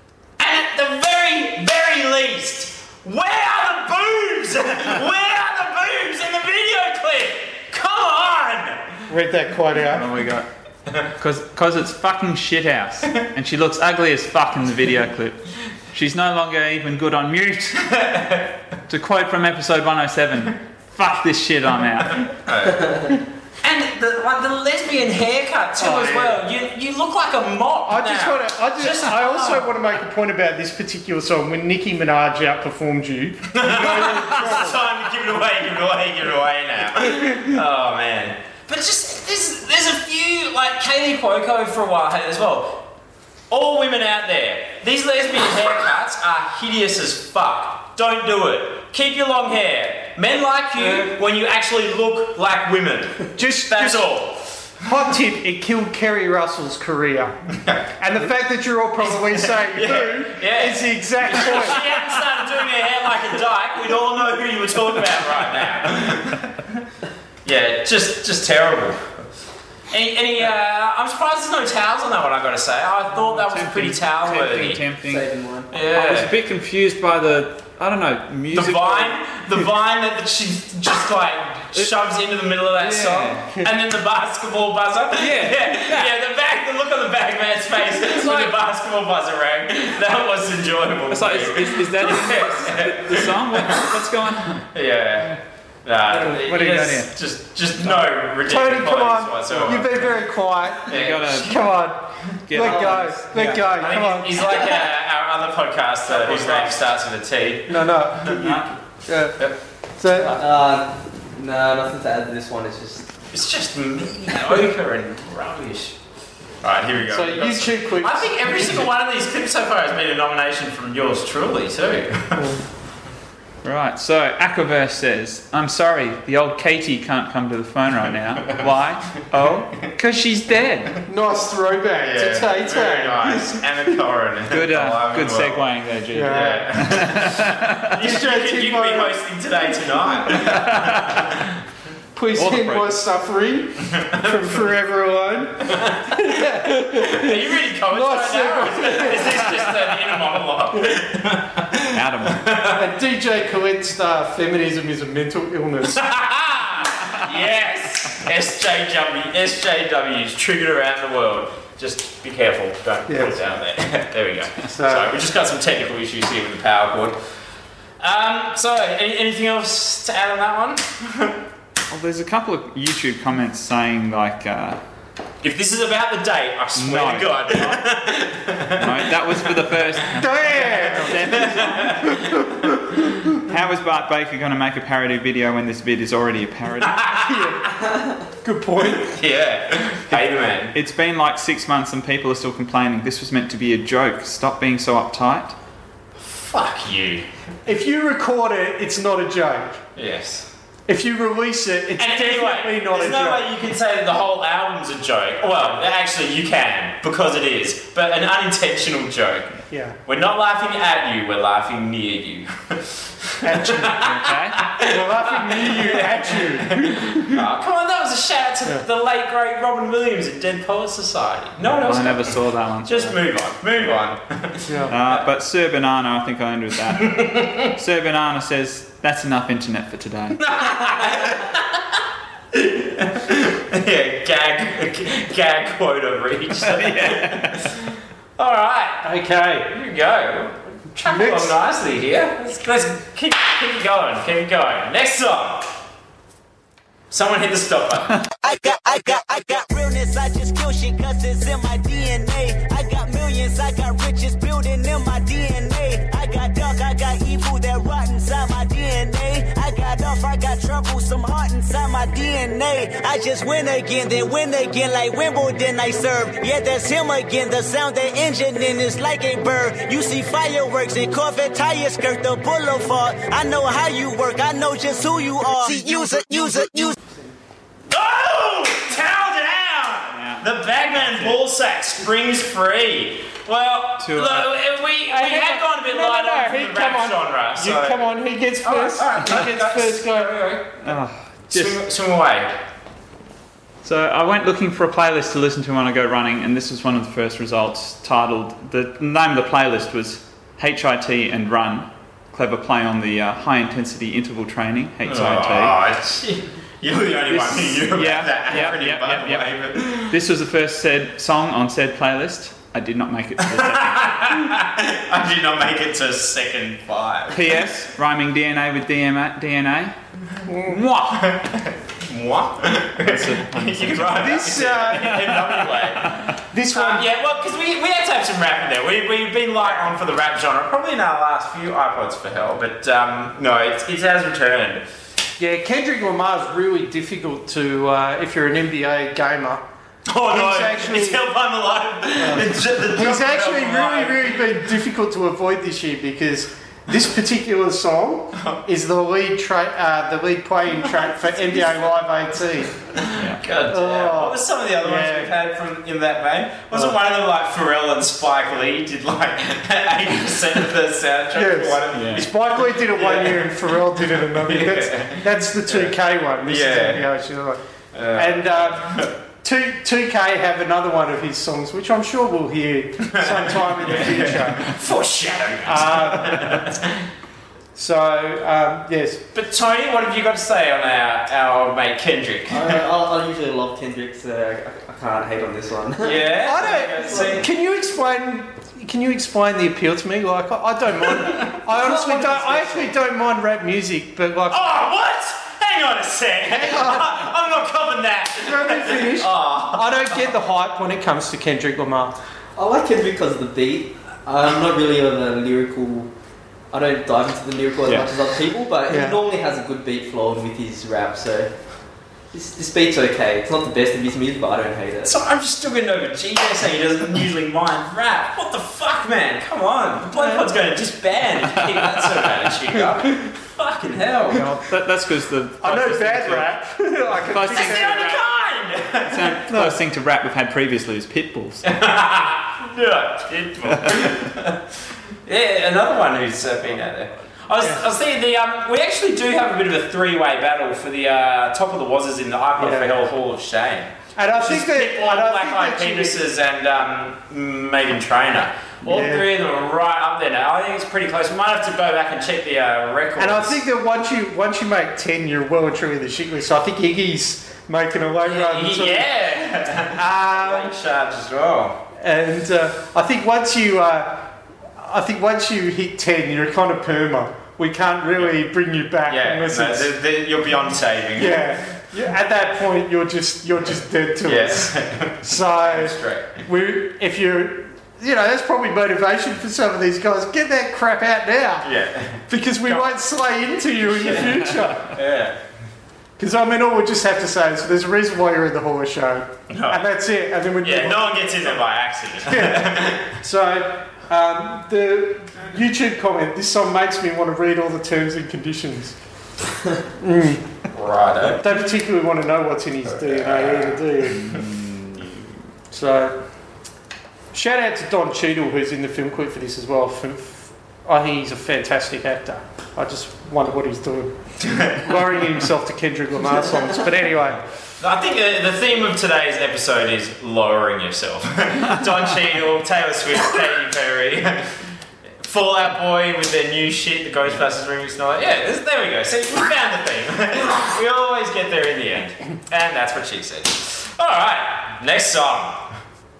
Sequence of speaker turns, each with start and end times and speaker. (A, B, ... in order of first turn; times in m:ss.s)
0:00.4-0:08.9 A
0:09.1-0:10.1 B
0:09.9-0:10.5 C
0:11.2-0:18.0 C
0:17.9-0:18.5 A
0:18.9-0:22.3 C
0:22.4-0:29.7 A
0:25.8-0:26.4 B
0:27.8-0:34.8 B
0:33.5-0:42.8 A
0:43.5-0:54.4 A
0:53.4-0:54.1 B
0:54.8-0:57.4 B
0:57.5-0:57.9 A
0:58.0-1:01.8 B
0:59.0-1:06.8 A
1:07.4-1:09.1 A
1:09.9-1:14.8 A
1:13.1-1:15.3 C
1:15.0-1:15.7 D
1:15.7-1:16.3 A
1:15.9-1:19.2 C
1:18.5-1:33.9 A
1:22.8-1:23.5 C
1:25.2-1:26.1 C
1:28.0-1:28.5 C
1:31.1-1:34.7 C
1:34.7-1:40.1 A
1:36.1-1:37.0 B
1:36.5-1:37.1 C
1:38.4-1:44.4 B
1:39.5-1:39.9 C
1:40.9-1:41.7 A
1:40.9-1:41.8 C
1:42.5-1:43.8 C
1:42.6-1:43.0 D
1:43.7-1:48.3 A
1:46.1-1:46.8 C
1:47.7-1:49.4 B
1:48.2-1:48.7 C
1:50.0-1:50.4 B
1:50.4-1:53.1 D
1:53.3-1:56.0 A
1:56.6-2:02.5 A
1:57.0-1:58.9 B
2:02.4-2:02.6 B
2:03.6-2:11.0 C
2:11.0-2:13.5 B
2:12.0-2:21.4 A
2:14.5-2:18.0 C
2:16.1-2:16.7 B
2:18.0-2:19.2 B
2:20.4-2:21.3 C
2:22.1-2:29.5 B
2:22.4-2:23.0 C
2:24.0-2:24.3 A
2:25.6-2:26.4 A
2:26.9-2:32.8 A
2:31.8-2:32.6 C
2:32.8-2:36.0 B
2:35.9-2:47.2 A
2:43.1-2:43.4 B
2:44.7-2:45.1 B
2:48.0-2:51.3 A
2:51.9-2:54.8 C
2:55.4-2:59.4 A
2:56.8-2:58.0 C
2:58.7-3:02.5 C
3:00.0-3:02.8 A
3:00.2-3:01.6 B
3:03.3-3:07.2 C
3:06.8-3:07.4 A
3:07.2-3:07.6 B
3:08.4-3:09.2 B
3:09.0-3:10.7 A
3:10.7-3:15.5 C
3:16.3-3:17.3 A
3:17.6-3:19.8 B
3:20.0-3:20.5 A
3:20.9-3:23.5 B
3:22.0-3:32.8 A
3:29.7-3:30.0 B
3:33.4-3:45.2 A
3:33.4-3:33.9 B
3:33.8-3:34.7 C
3:34.8-3:37.2 B
3:41.8-3:43.2 C
3:44.7-3:44.9 B
3:44.9-3:50.5 C
3:47.0-3:47.7 A
3:50.4-3:51.8 A
3:52.5-3:59.1 A
3:56.6-3:57.7 C
3:59.0-3:59.7 B
3:59.7-4:05.7 A
4:01.0-4:01.5 B
4:07.1-4:08.2 A
4:08.4-4:37.0 E
4:37.9-4:48.1 A
4:40.1-4:41.4 C
4:44.0-4:44.6 C
4:45.1-4:50.5 B
4:48.6-4:50.8 A
4:50.8-4:51.8 C
4:51.5-4:52.5 A
4:53.8-5:05.8 C
5:05.0-5:10.2 A
5:07.3-5:14.5 C
5:13.4-5:17.6 A
5:17.3-5:19.9 C
5:20.4-5:20.8 B
5:20.6-5:21.3 C
5:21.1-5:34.8 A
5:23.0-5:26.3 C
5:24.1-5:25.3 B
5:26.5-5:27.1 B
5:35.4-5:39.6 B
5:40.1-5:44.6 A
5:40.2-5:41.2 B
5:42.2-5:52.7 B
5:51.3-5:51.9 A
5:52.9-6:05.9 A
5:53.1-5:53.4 C
5:53.7-5:55.3 B
5:56.7-5:57.0 B
6:01.3-6:07.6 B
6:01.9-6:02.3 C
6:06.4-6:07.1 A
6:07.9-6:09.1 A
6:08.1-6:14.7 B
6:13.0-6:16.9 A
6:15.6-6:16.6 B
6:17.7-6:19.2 B
6:19.3-6:22.8 A
6:22.5-6:27.4 D
6:26.0-6:27.5 A
6:26.4-6:34.9 B
6:31.7-6:32.9 D
6:34.5-6:40.2 A
6:36.4-6:37.2 B
6:38.4-6:42.2 B
6:42.6-6:46.1 D
6:46.7-6:51.5 D
6:47.8-6:48.1 C
6:48.9-6:49.2 B
6:52.3-6:55.1 D
6:55.0-7:04.5 A
7:00.1-7:00.4 B
7:04.3-7:06.6 C
7:05.6-7:08.2 B
7:07.2-7:08.3 C
7:07.5-7:09.4 A
7:09.0-7:11.6 C
7:09.5-7:09.8 B
7:11.6-7:14.6 A
7:13.8-7:14.1 C
7:15.2-7:33.6 A
7:22.6-7:22.9 B
7:24.2-7:26.2 B
7:28.8-7:29.3 B
7:33.2-7:39.1 B
7:38.2-7:41.8 A
7:39.8-7:40.7 B
7:42.0-7:49.9 B
7:49.0-7:51.6 A
7:51.1-8:01.7 B
7:54.2-7:56.4 A
8:01.6-8:02.9 A
8:02.3-8:04.9 B
8:03.9-8:05.4 A
8:06.2-8:11.7 B
8:09.5-8:09.9 A
8:10.6-8:13.1 A
8:12.2-8:19.0 B
8:20.0-8:20.4 B
8:20.7-8:21.5 A
8:21.3-8:24.3 B
8:22.9-8:23.8 A
8:24.2-8:25.2 C
8:25.7-8:26.2 B
8:27.3-8:37.4 B
8:34.4-8:34.8 A
8:37.8-8:44.5 A
8:45.2-8:55.7 A